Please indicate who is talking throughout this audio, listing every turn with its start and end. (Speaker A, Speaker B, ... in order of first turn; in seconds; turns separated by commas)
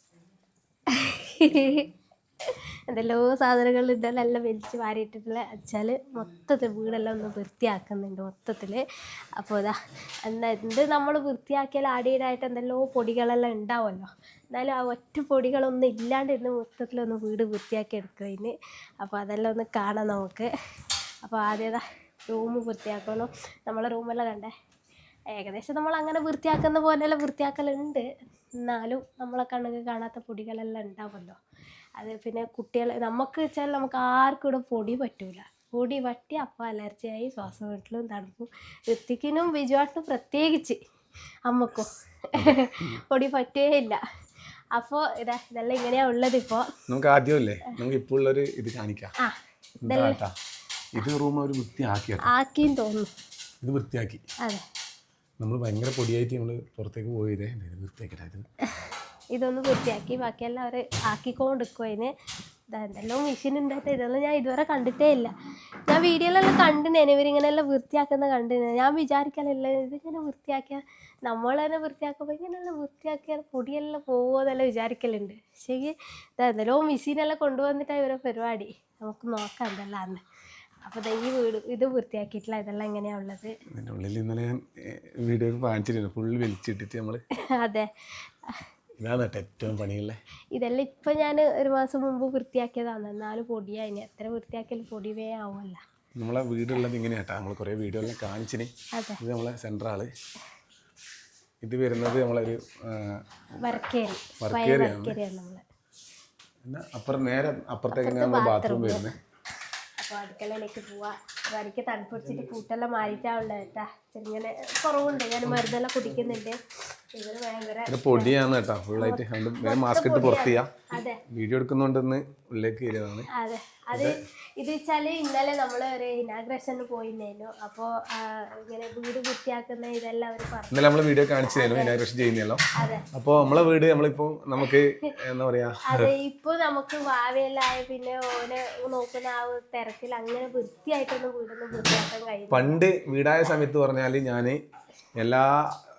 Speaker A: 0.9-1.9, Speaker A: 2.9-8.8, Speaker A: 9.4-20.5, Speaker A: 21.2-24.5, Speaker A: 25.3-28.0, Speaker A: 28.6-31.4, Speaker A: 32.0-40.8, Speaker A: 41.5-44.0, Speaker B: 42.4-43.0, Speaker A: 44.7-46.7, Speaker B: 46.9-49.1, Speaker A: 49.2-50.2, Speaker B: 49.8-50.3, Speaker B: 50.9-52.2, Speaker A: 52.3-53.1, Speaker B: 53.6-54.2, Speaker B: 55.4-58.5, Speaker A: 59.3-62.1, Speaker A: 62.7-65.3, Speaker A: 65.9-80.2, Speaker A: 80.8-83.5, Speaker B: 83.7-87.2, Speaker A: 87.6-87.9, Speaker B: 89.0-90.2, Speaker A: 90.5-95.8, Speaker B: 96.2-100.1, Speaker A: 98.9-99.2, Speaker B: 101.6-103.2, Speaker A: 103.6-105.6, Speaker B: 104.4-105.2, Speaker B: 106.6-109.1, Speaker A: 107.9-109.0, Speaker A: 110.0-116.6, Speaker A: 117.1-118.3, Speaker B: 117.9-120.7, Speaker A: 119.0-121.2, Speaker B: 121.3-123.3, Speaker A: 123.3-130.8, Speaker B: 130.7-132.6, Speaker A: 131.5-132.0, Speaker A: 132.8-133.0, Speaker B: 133.1-136.1, Speaker A: 135.9-142.8, Speaker B: 142.5-144.6, Speaker B: 145.2-145.7